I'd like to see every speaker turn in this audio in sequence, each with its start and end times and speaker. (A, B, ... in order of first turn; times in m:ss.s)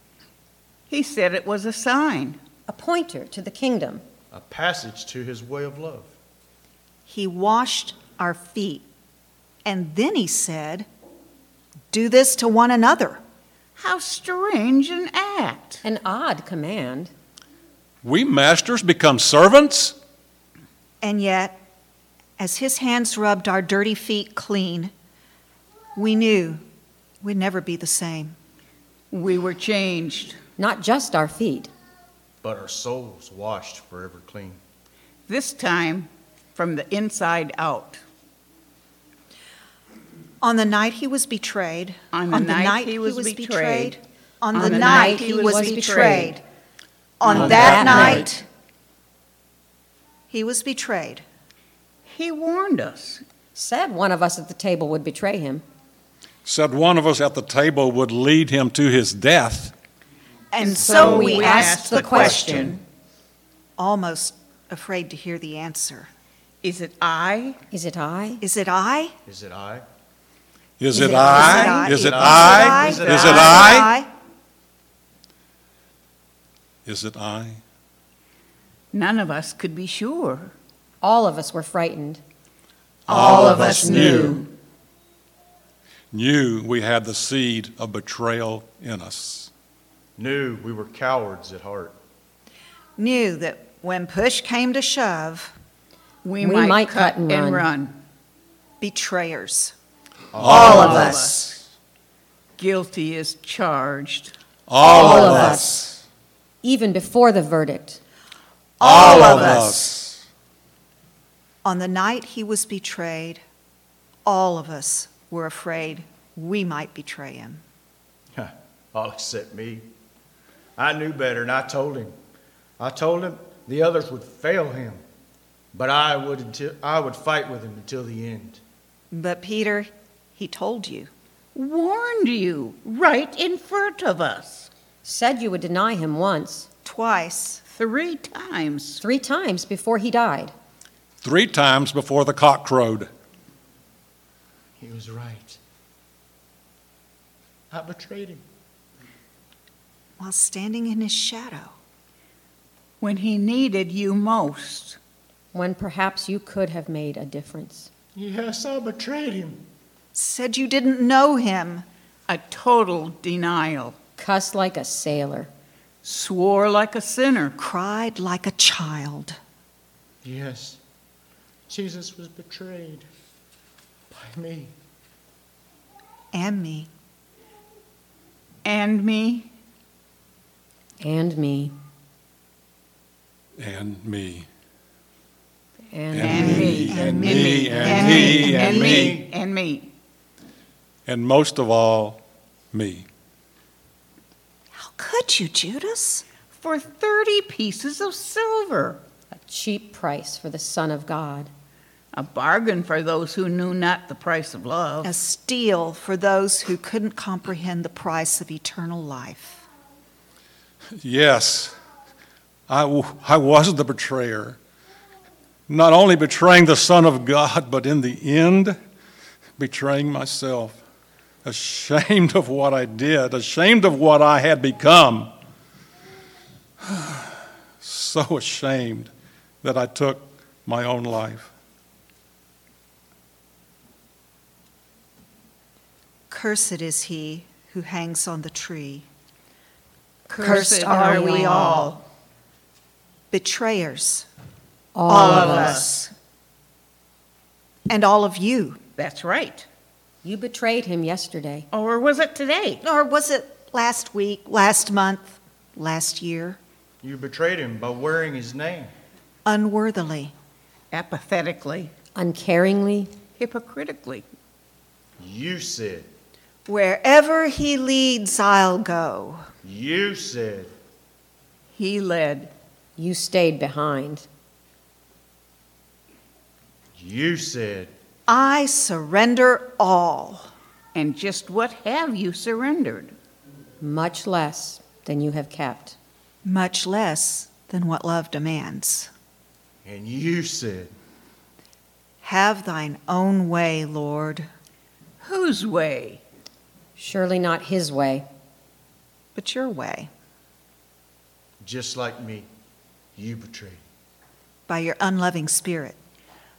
0:00.9-0:02.4 A
0:02.7-0:04.0 B
0:04.3-0:06.1 C
0:07.1-0:08.9 D
0:09.6-0:10.9 D
0:11.9-0:13.2 D
0:13.8-0:15.8 A
0:15.8-0:17.1 B
0:18.0-0:20.0 E
0:21.0-0:21.6 D
0:22.4-0:24.9 D
0:26.0-0:26.6 D
0:27.2-0:28.4 D
0:29.1-0:30.4 A
0:30.6-0:31.7 B
0:32.4-0:34.6 C
0:35.3-0:38.0 A
0:40.4-0:46.4 D
0:42.1-0:44.0 A
0:44.5-0:46.4 B
0:44.5-0:46.4 A
0:47.2-0:48.5 D
0:47.3-0:48.3 B
0:47.3-0:47.6 C
0:47.5-0:48.2 E
0:50.3-0:51.2 D
0:52.1-0:53.2 A
0:53.6-0:55.6 B
0:56.4-0:59.7 E
1:00.5-1:02.7 D
1:00.6-1:02.8 A
1:00.9-1:02.8 B
1:01.8-1:02.6 C
1:02.4-1:02.7 E
1:03.8-1:06.1 D
1:06.6-1:07.6 A
1:07.7-1:08.4 B
1:08.4-1:09.2 D
1:09.3-1:09.8 C
1:10.8-1:13.9 E
1:10.9-1:14.1 D
1:11.9-1:13.8 C
1:16.9-1:17.6 E
1:18.9-1:20.5 A
1:21.0-1:22.2 B
1:23.1-1:24.4 E
1:23.1-1:24.4 B
1:23.1-1:23.6 D
1:23.3-1:24.5 A
1:26.1-1:29.5 E
1:30.2-1:32.0 C
1:33.0-1:35.6 D
1:36.2-1:38.0 A
1:36.4-1:37.7 B
1:38.8-1:39.8 D
1:40.3-1:41.2 C
1:40.4-1:41.3 E
1:40.5-1:41.5 A
1:40.6-1:41.6 D
1:42.6-1:44.3 A
1:44.7-1:46.0 E
1:44.8-1:45.8 B
1:46.6-1:48.0 B
1:48.8-1:49.8 D
1:48.8-1:50.2 E
1:51.6-1:53.4 D
1:54.3-1:57.6 D
1:58.4-1:59.9 C
2:00.8-2:02.1 C
2:02.8-2:05.0 C
2:05.7-2:08.6 C
2:09.1-2:11.1 D
2:11.6-2:14.7 A
2:15.0-2:16.7 B
2:16.8-2:17.6 D
2:17.7-2:19.0 A
2:19.0-2:20.5 B
2:21.2-2:23.1 E
2:24.8-2:25.6 C
2:27.7-2:28.4 C
2:30.2-2:31.7 D
2:33.0-2:35.0 A
2:35.5-2:37.9 B
2:38.2-2:39.6 C
2:40.2-2:41.8 D
2:42.3-2:44.0 A
2:44.2-2:45.5 B
2:46.0-2:47.6 A
2:47.6-2:49.4 D
2:50.2-2:50.8 C
2:51.7-2:53.1 C
2:54.1-2:54.7 C
2:56.3-2:56.9 D
2:58.6-2:59.5 A
3:01.0-3:01.7 B
3:03.6-3:04.5 E
3:05.9-3:06.9 B
3:06.1-3:09.3 E
3:06.2-3:09.9 A
3:06.8-3:09.0 D
3:07.8-3:08.5 B
3:08.1-3:09.3 C
3:11.1-3:13.1 E
3:14.8-3:16.2 D
3:16.6-3:19.0 A
3:19.3-3:21.5 B
3:22.1-3:25.1 A
3:25.0-3:29.6 D
3:31.0-3:31.8 E
3:32.7-3:34.6 E
3:35.7-3:38.8 E
3:39.6-3:40.8 E
3:41.4-3:45.3 E
3:46.8-3:49.1 E
3:49.6-3:51.5 E
3:56.3-3:59.1 D
4:00.3-4:02.0 A
4:00.4-4:01.9 D
4:00.5-4:01.8 B
4:03.3-4:04.3 D
4:05.0-4:05.8 B
4:05.1-4:06.1 D
4:05.2-4:05.9 A
4:07.9-4:08.8 D
4:09.0-4:09.7 A
4:10.2-4:11.7 B
4:11.7-4:12.8 A
4:12.8-4:16.6 D
4:17.0-4:18.9 C
4:19.5-4:20.3 D
4:20.9-4:21.9 A
4:22.2-4:23.1 B
4:23.4-4:24.3 A
4:25.2-4:26.1 C
4:26.7-4:29.5 D
4:29.6-4:30.7 C
4:31.8-4:32.5 A
4:33.0-4:34.3 B
4:37.0-4:37.9 C
4:38.3-4:40.5 D
4:41.0-4:43.2 A
4:43.8-4:46.0 B
4:46.4-4:49.1 D
4:49.8-4:50.9 C
4:52.2-4:54.5 D
4:55.2-4:56.2 A
4:57.0-4:58.3 B
4:59.4-5:00.1 D
5:01.6-5:02.5 C
5:03.2-5:03.8 C
5:04.7-5:06.0 D